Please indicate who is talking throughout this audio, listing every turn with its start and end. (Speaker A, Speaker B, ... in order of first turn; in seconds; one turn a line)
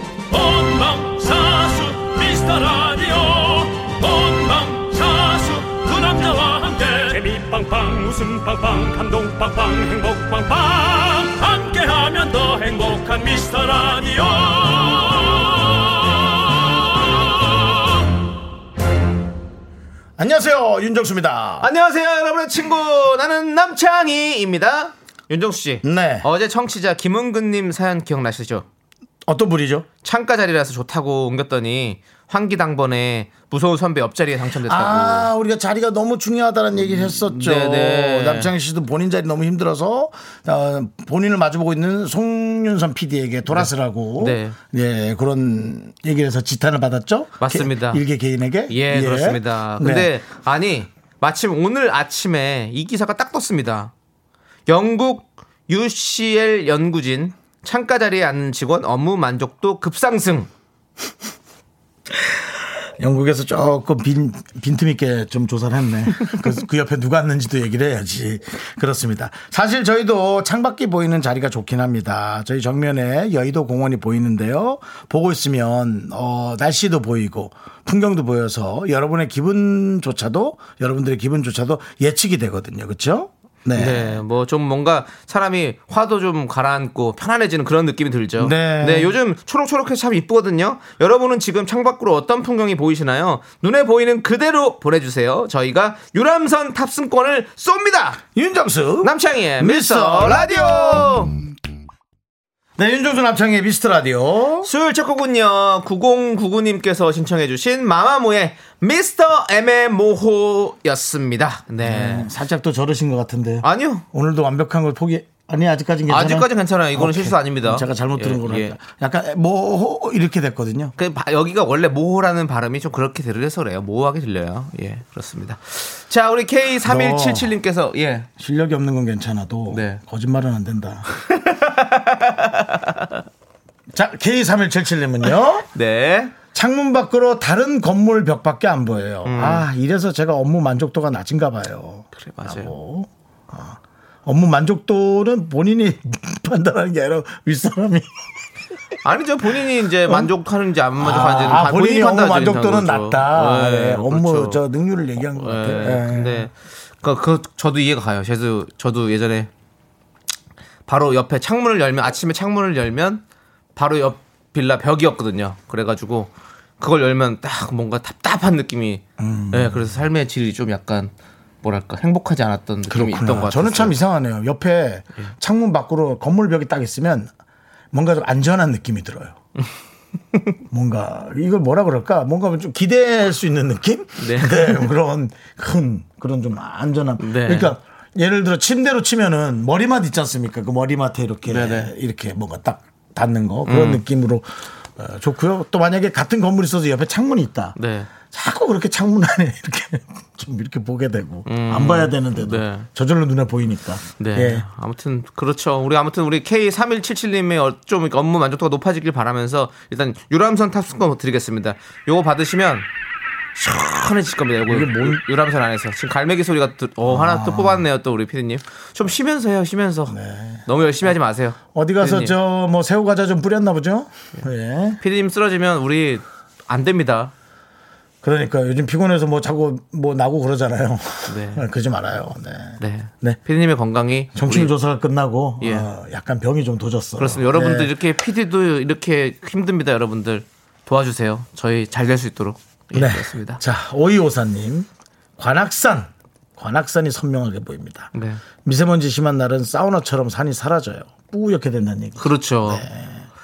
Speaker A: 0.3-18.1
Speaker B: 20.2-21.7
Speaker C: 21.6-28.6
Speaker B: 25.8-26.3
Speaker B: 29.2-29.9
Speaker C: 30.0-35.3
Speaker B: 34.6-50.1
Speaker C: 37.2-38.5
Speaker C: 43.5-44.5
Speaker C: 47.4-48.0
Speaker C: 48.7-53.9
Speaker C: 54.7-60.5
Speaker B: 63.0-84.2
Speaker C: 83.7-98.2
Speaker B: 88.4-89.2
Speaker B: 98.3-101.2
Speaker C: 99.0-101.3
Speaker B: 102.8-104.7
Speaker C: 104.6-112.3
Speaker B: 111.8-120.9
Speaker C: 113.6-114.0
Speaker C: 116.1-118.8
Speaker C: 121.0-128.3
Speaker B: 126.8-127.5
Speaker B: 128.4-131.2
Speaker C: 129.7-130.0
Speaker C: 131.3-133.2
Speaker B: 133.9-135.7
Speaker C: 135.7-136.3
Speaker B: 136.5-148.2
Speaker C: 139.2-139.7
Speaker C: 142.2-142.7
Speaker C: 149.0-154.6
Speaker B: 150.0-150.3
Speaker B: 151.0-156.5
Speaker C: 155.3-159.5
Speaker C: 160.9-163.2
Speaker C: 163.8-171.1
Speaker B: 169.2-169.9
Speaker C: 171.6-173.9
Speaker B: 172.9-177.3
Speaker B: 177.9-179.3
Speaker B: 180.7-197.7
Speaker C: 184.2-184.9
Speaker C: 187.2-187.7
Speaker C: 191.5-191.9
Speaker C: 193.7-194.0
Speaker C: 197.8-198.1
Speaker B: 198.3-204.7
Speaker C: 201.4-202.9
Speaker C: 204.2-212.9
Speaker C: 213.6-220.1
Speaker B: 214.7-215.2
Speaker B: 217.1-217.8
Speaker B: 220.1-220.6
Speaker C: 220.7-222.3
Speaker B: 221.7-225.0
Speaker C: 225.0-227.3
Speaker B: 228.2-233.4
Speaker C: 231.3-231.6
Speaker C: 232.8-234.7
Speaker B: 234.3-237.9
Speaker C: 235.6-235.9
Speaker C: 237.2-243.6
Speaker B: 242.9-248.1
Speaker C: 248.1-248.4
Speaker B: 248.6-253.2
Speaker C: 252.2-252.8